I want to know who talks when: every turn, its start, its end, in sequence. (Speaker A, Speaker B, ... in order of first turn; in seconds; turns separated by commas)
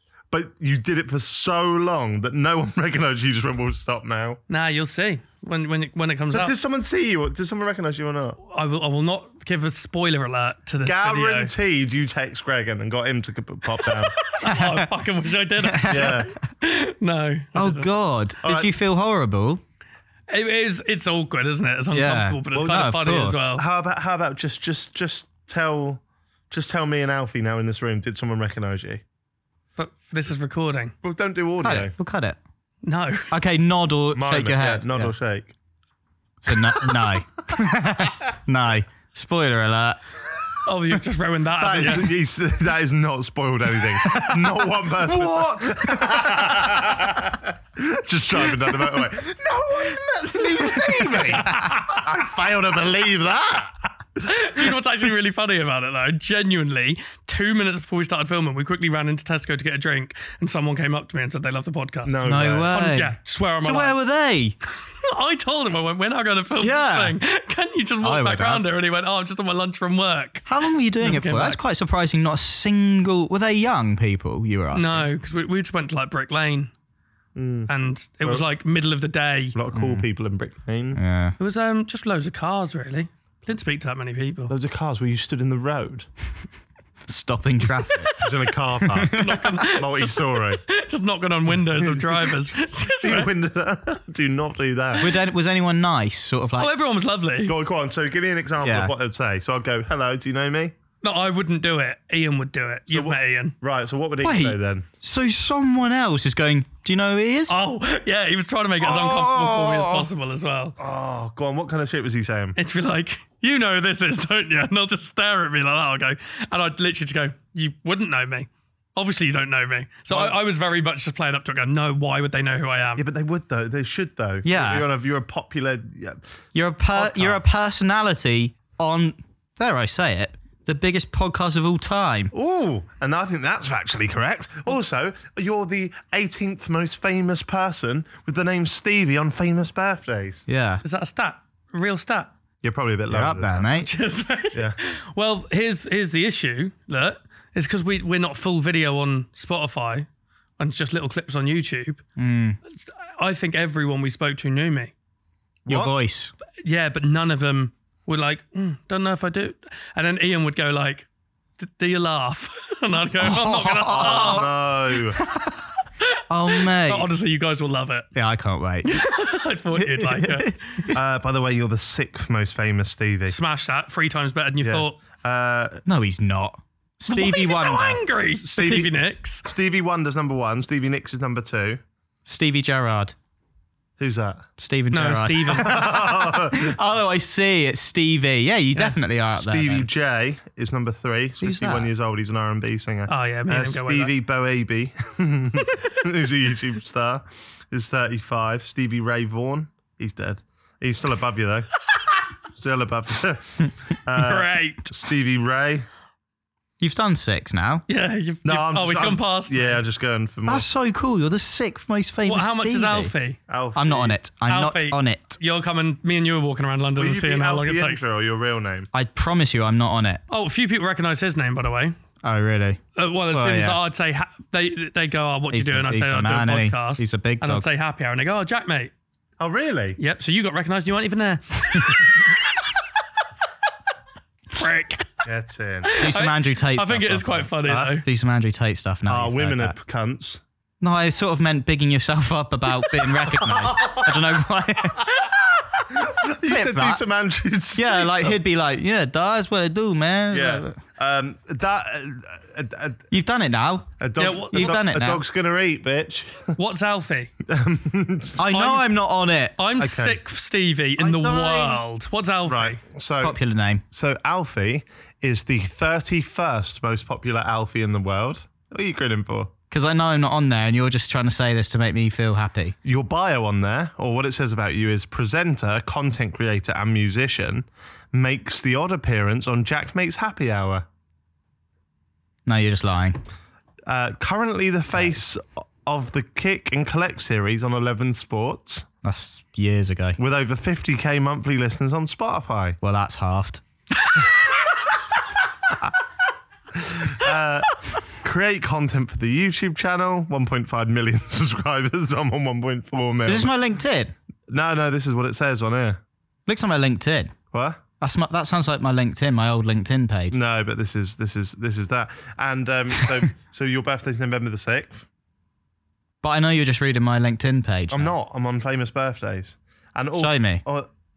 Speaker A: 0.3-4.4, Speaker B: 4.5-6.5, Speaker A: 6.3-8.4, Speaker B: 8.4-11.5, Speaker A: 10.8-14.2, Speaker B: 13.8-17.9, Speaker C: 14.5-14.9, Speaker C: 15.6-16.2, Speaker A: 15.9-16.3, Speaker C: 17.6-19.6, Speaker A: 18.4-18.7, Speaker B: 20.3-23.6, Speaker C: 21.9-23.5, Speaker A: 22.5-29.0, Speaker B: 29.8-30.9, Speaker A: 31.0-31.9, Speaker C: 31.6-32.4, Speaker B: 32.8-33.3, Speaker C: 33.3-35.1, Speaker A: 34.1-35.5, Speaker C: 36.4-40.0, Speaker B: 40.6-42.1, Speaker A: 41.6-53.8, Speaker C: 45.0-46.8, Speaker C: 49.9-51.4, Speaker B: 51.3-52.0, Speaker B: 54.2-62.2, Speaker A: 62.0-62.8, Speaker C: 62.2-64.6, Speaker B: 62.7-64.0, Speaker B: 65.0-71.6, Speaker C: 66.6-67.2, Speaker C: 68.0-68.7, Speaker C: 70.5-75.1, Speaker B: 74.7-76.7, Speaker A: 77.4-77.7, Speaker B: 77.7-79.6, Speaker A: 79.5-81.0, Speaker C: 79.7-80.1, Speaker C: 81.0-81.4, Speaker B: 81.4-84.5, Speaker A: 84.5-86.1, Speaker C: 87.1-88.2, Speaker A: 88.2-90.6, Speaker C: 88.8-89.5, Speaker B: 89.1-93.3, Speaker A: 91.7-92.4, Speaker A: 93.0-95.0, Speaker C: 95.0-96.7, Speaker B: 96.6-97.5, Speaker A: 97.5-100.7, Speaker C: 98.6-98.9, Speaker B: 101.0-103.5, Speaker A: 102.9-104.9, Speaker C: 104.2-107.5, Speaker B: 107.5-110.8, Speaker A: 108.8-110.1, Speaker A: 110.8-112.6, Speaker B: 112.6-123.0, Speaker A: 120.1-120.4, Speaker A: 123.0-126.3, Speaker C: 124.5-124.9, Speaker C: 126.5-132.3, Speaker A: 126.9-127.4, Speaker A: 132.3-140.4, Speaker C: 140.5-140.8, Speaker B: 140.8-142.3, Speaker A: 142.6-143.7, Speaker C: 143.1-143.9, Speaker B: 143.7-150.1, Speaker B: 150.6-152.0, Speaker C: 152.2-152.6, Speaker B: 152.9-154.9, Speaker A: 155.7-155.9, Speaker C: 155.7-156.3, Speaker B: 156.6-161.1, Speaker B: 161.6-164.5, Speaker C: 163.2-164.5, Speaker A: 163.9-165.2, Speaker C: 165.2-165.6, Speaker C: 166.3-167.1, Speaker B: 166.5-168.1, Speaker C: 168.2-169.1, Speaker B: 168.8-170.6, Speaker C: 169.7-171.0, Speaker A: 170.9-173.4, Speaker B: 173.3-175.0, Speaker A: 174.6-175.8, Speaker C: 175.9-178.0, Speaker B: 177.1-179.4, Speaker A: 178.4-181.8, Speaker C: 182.3-183.1, Speaker A: 184.0-184.5, Speaker C: 184.6-189.9, Speaker B: 184.9-185.9, Speaker A: 185.5-186.8, Speaker A: 188.8-201.7, Speaker C: 191.4-191.9, Speaker B: 193.1-194.1, Speaker A: 202.6-205.9, Speaker B: 204.2-204.9, Speaker C: 206.8-207.8, Speaker B: 207.9-209.8, Speaker A: 208.4-210.7, Speaker C: 210.5-213.1, Speaker B: 212.2-213.4, Speaker A: 213.5-214.2, Speaker C: 213.8-215.4, Speaker B: 214.5-218.0, Speaker A: 217.0-218.9, Speaker C: 218.9-220.2, Speaker B: 220.3-221.9, Speaker C: 222.2-222.8, Speaker B: 223.0-228.9, Speaker C: 223.3-223.8, Speaker C: 225.5-227.7, Speaker A: 229.4-230.0, Speaker B: 230.0-232.3, Speaker B: 234.5-235.1, Speaker A: 235.2-235.9, Speaker B: 235.9-238.1, Speaker C: 236.0-239.8, Speaker A: 237.7-237.9, Speaker A: 239.1-240.4, Speaker C: 240.8-245.1, Speaker A: 243.4-244.1, Speaker A: 245.9-248.4, Speaker C: 246.4-247.0, Speaker C: 247.8-250.8, Speaker A: 250.3-253.0, Speaker C: 253.1-255.2, Speaker A: 254.0-256.6, Speaker B: 254.2-254.8, Speaker B: 256.6-257.3, Speaker A: 257.5-258.4, Speaker C: 258.4-259.6, Speaker B: 258.5-258.9, Speaker B: 259.6-262.8, Speaker A: 259.8-260.2, Speaker A: 261.0-261.8, Speaker A: 262.5-263.4, Speaker C: 263.2-263.8, Speaker A: 263.9-269.5, Speaker C: 269.7-272.8, Speaker A: 272.8-280.9, Speaker C: 282.5-283.2, Speaker A: 283.9-288.9, Speaker C: 289.0-290.2, Speaker A: 290.2-292.8, Speaker C: 292.8-293.6, Speaker A: 296.7-303.5, Speaker C: 303.3-304.1, Speaker A: 304.5-306.0, Speaker C: 306.5-307.3, Speaker A: 307.5-307.8, Speaker C: 308.0-310.4, Speaker A: 310.3-315.1, Speaker C: 316.2-318.1, Speaker A: 317.9-320.9, Speaker C: 320.2-320.6